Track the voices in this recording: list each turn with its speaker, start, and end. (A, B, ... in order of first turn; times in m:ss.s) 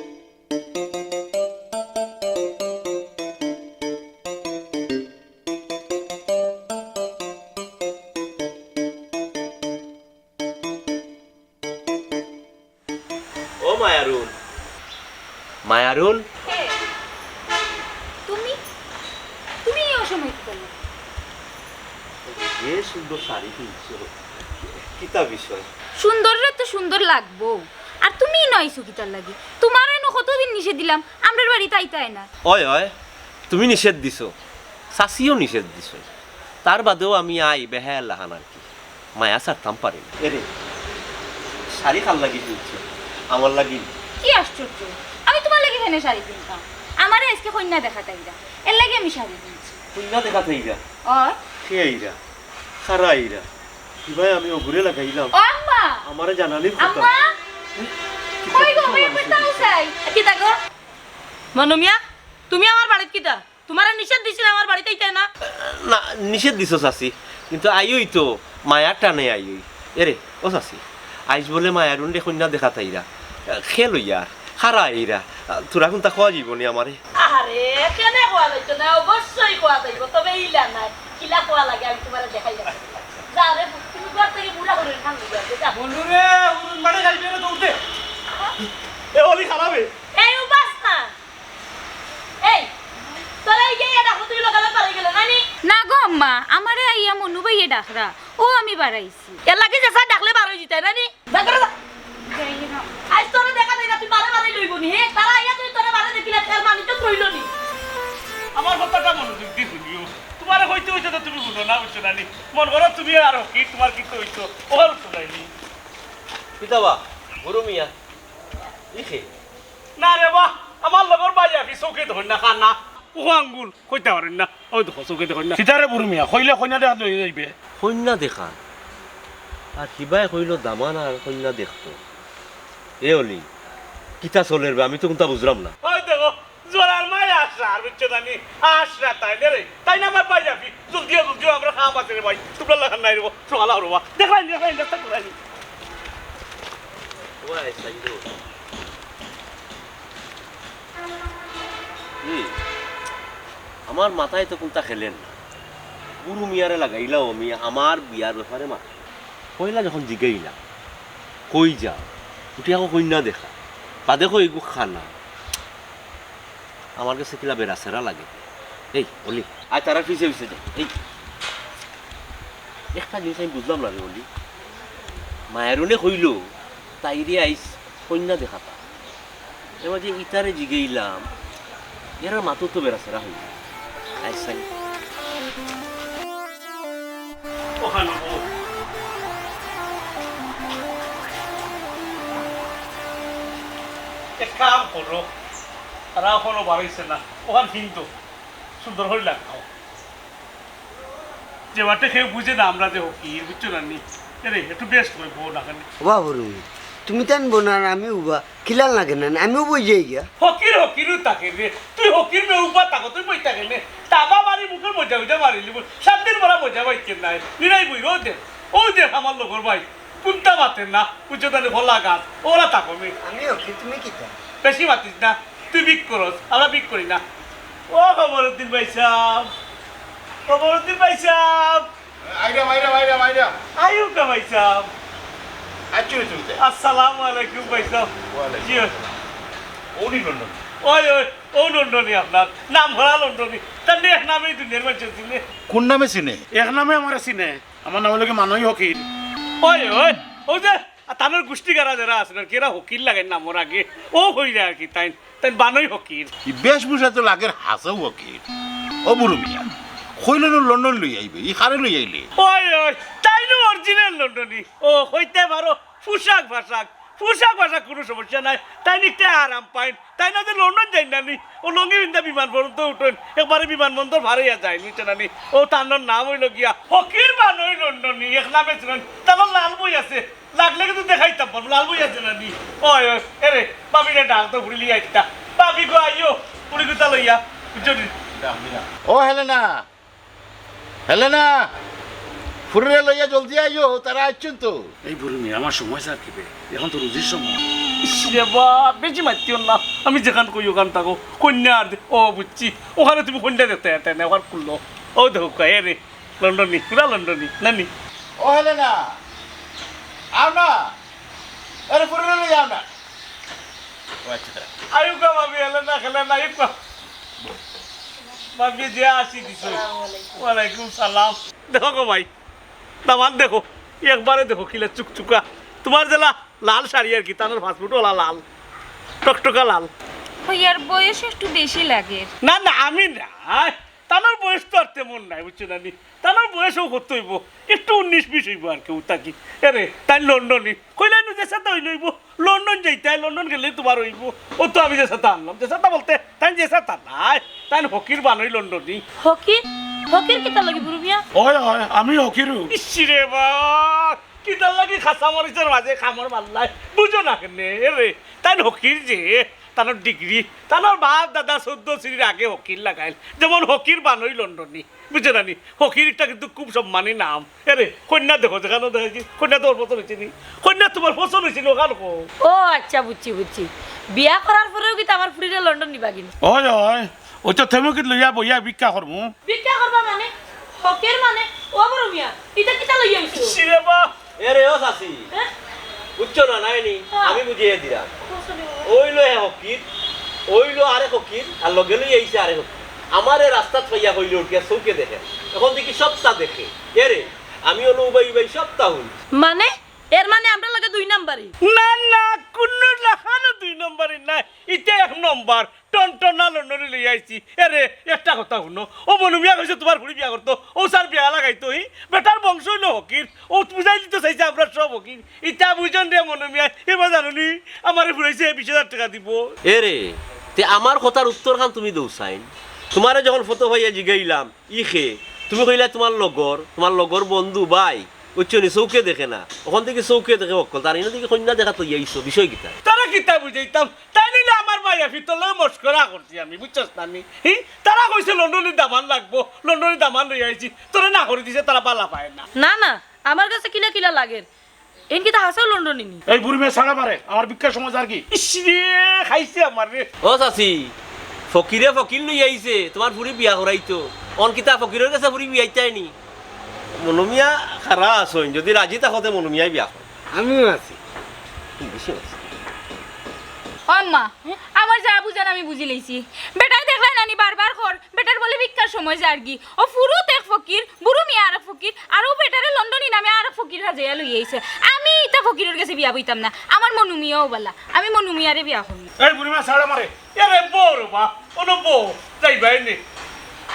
0:13.6-0:14.3 A
0:15.6-0:16.2 A
0:16.5-0:16.7 B
0:18.3-0:18.6 B
0:19.6-0:20.7 B
0:22.2-0:25.7 A
0:26.0-0:32.2 B
0:32.4-0:32.9 A
0:33.5-0:34.3 A
0:34.9-0:36.1 A
0:36.6-0:38.6 A
0:39.2-0:40.5 A
0:41.7-0:43.9 A
0:44.2-0:49.8 B
0:49.9-0:50.8 A
0:51.1-0:51.4 B
0:51.6-0:52.2 A
0:52.8-0:53.4 A
0:54.0-0:55.4 A
0:55.3-0:56.0 B
0:56.0-0:57.1 A
0:56.8-0:57.3 B
0:58.4-0:59.7 A
0:58.4-0:59.9 B
1:00.0-1:00.6 C
1:01.5-1:02.0 C
1:02.5-1:05.3 C
1:05.4-1:17.0 A
1:17.2-1:25.8 C
1:25.8-1:27.7 D
1:25.9-1:27.5 E
1:29.1-1:29.9 D
1:30.1-1:31.1 C
1:32.4-1:32.7 C
1:33.4-1:35.4 C
1:35.6-1:39.4 B
1:39.4-1:41.7 C
1:42.3-1:43.0 B
1:43.1-1:47.5 C
1:48.6-1:55.5 D
1:56.6-1:57.9 A
1:58.9-1:59.3 A
2:00.0-2:05.6 D
2:05.6-2:07.5 F
2:07.8-2:08.6 A
2:09.8-2:12.0 A
2:13.0-2:13.4 A
2:14.2-2:15.7 A
2:15.8-2:25.3 D
2:27.4-2:28.4 A
2:32.2-2:32.6 A
2:33.9-2:35.4 A
2:36.2-2:38.9 A
2:39.6-2:40.6 A
2:41.5-2:43.5 A
2:44.0-2:45.1 A
2:47.0-2:48.4 A
2:48.9-2:51.0 A
2:52.9-2:54.2 A
2:55.5-2:56.5 A
2:57.0-2:58.8 A
2:59.8-3:01.2 A
3:02.2-3:03.5 A
3:04.2-3:04.6 A
3:07.8-3:08.4 D
3:14.4-3:15.3 D
3:16.2-3:18.1 D
3:18.8-3:19.6 D
3:21.7-3:25.9 D
3:26.0-3:30.3 G
3:30.4-3:43.2 D
3:43.2-3:44.3 G
3:44.6-3:47.2 D
3:47.9-3:49.5 D
3:50.5-3:51.9 D
3:52.2-3:53.5 H
3:53.8-3:54.9 D
3:55.9-3:56.6 H
3:56.6-3:58.1 D
3:57.7-3:59.1 H
3:58.6-3:58.9 D
4:00.0-4:00.6 H
4:00.8-4:05.4 D
4:05.7-4:06.4 H
4:06.5-4:09.0 F
4:09.6-4:16.3 D
4:16.4-4:18.4 H
4:19.0-4:22.3 H
4:22.4-4:48.1 D
4:48.3-4:49.8 H
4:51.1-4:51.7 H
4:52.7-4:54.9 H
4:55.0-4:57.6 F
4:58.0-5:07.9 D
5:08.4-5:09.0 H
5:10.4-5:10.9 H
5:11.9-5:12.8 H
5:14.2-5:14.7 H
5:14.9-5:16.7 D
5:18.6-5:19.8 D
5:19.6-5:20.3 C
5:20.3-5:22.3 D
5:23.0-5:28.4 D
5:29.2-5:29.9 D
5:30.4-5:32.3 B
5:32.4-5:49.0 D
5:49.2-5:51.2 C
5:51.3-5:52.7 F
5:52.7-6:12.3 D
6:12.4-6:16.3 C
6:16.4-6:19.3 F
6:19.4-6:23.6 C
6:23.3-6:24.1 D
6:24.4-6:25.3 A
6:26.2-6:28.1 A
6:27.1-6:27.4 C
6:28.2-6:28.9 C
6:28.8-6:29.8 A
6:30.5-6:39.2 A
6:39.3-6:41.5 C
6:41.6-6:59.5 D
6:59.6-7:12.8 A
7:12.8-7:22.5 D
7:22.6-7:24.5 C
7:25.1-7:26.2 C
7:26.3-7:28.2 F
7:28.3-7:30.1 D
7:30.2-7:30.9 A
7:31.5-7:36.1 A
7:37.0-7:40.1 A
7:40.3-7:41.0 E
7:41.8-7:42.5 A
7:43.9-7:59.1 B
7:59.2-8:00.1 F
8:00.3-8:03.0 D